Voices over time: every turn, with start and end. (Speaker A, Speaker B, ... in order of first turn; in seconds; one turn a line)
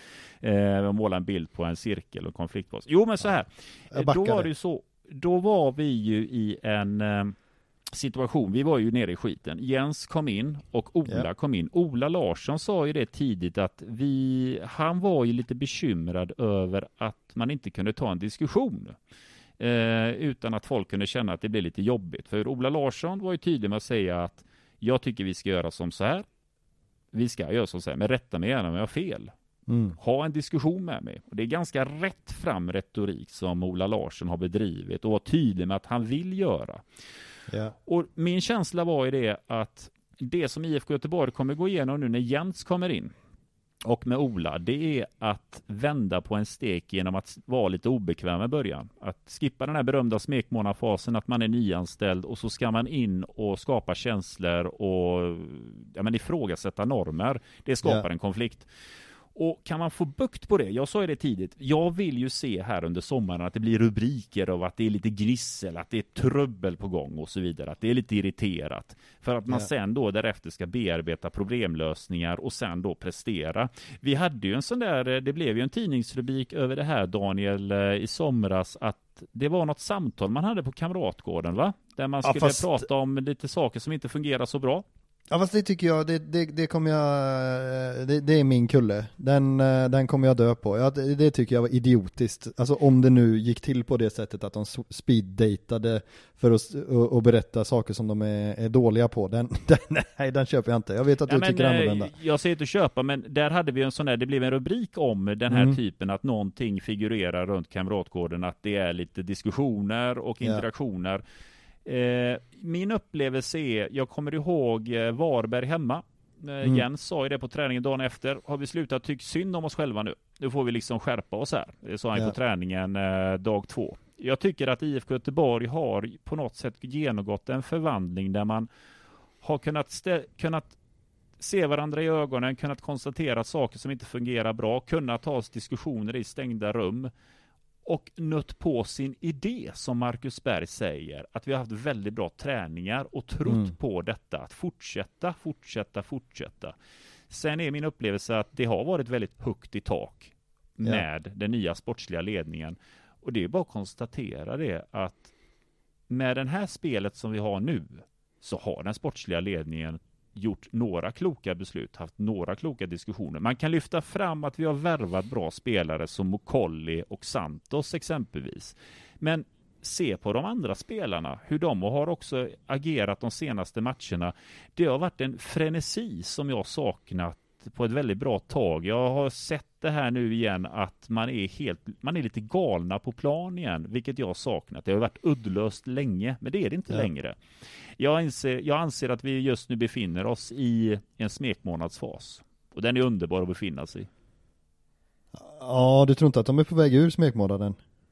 Speaker A: 0.4-7.3
Speaker B: 3.9-4.5
Speaker A: 7.9-19.0
Speaker A: 19.6-26.2
Speaker A: 27.1-29.3
Speaker B: 29.7-30.0
Speaker A: 30.0-36.8
Speaker B: 37.5-37.7
Speaker A: 37.9-43.1
Speaker A: 43.8-58.7
Speaker A: 59.3-84.8
Speaker B: 82.2-82.8
Speaker B: 85.3-102.1
Speaker A: 101.3-111.2
Speaker B: 105.5-105.8
Speaker A: 111.8-128.7
Speaker A: 129.4-130.8
Speaker A: 131.4-137.1
Speaker A: 137.8-146.7
Speaker B: 143.4-143.7
Speaker A: 147.3-155.3
Speaker A: 156.1-194.1
Speaker B: 195.3-197.8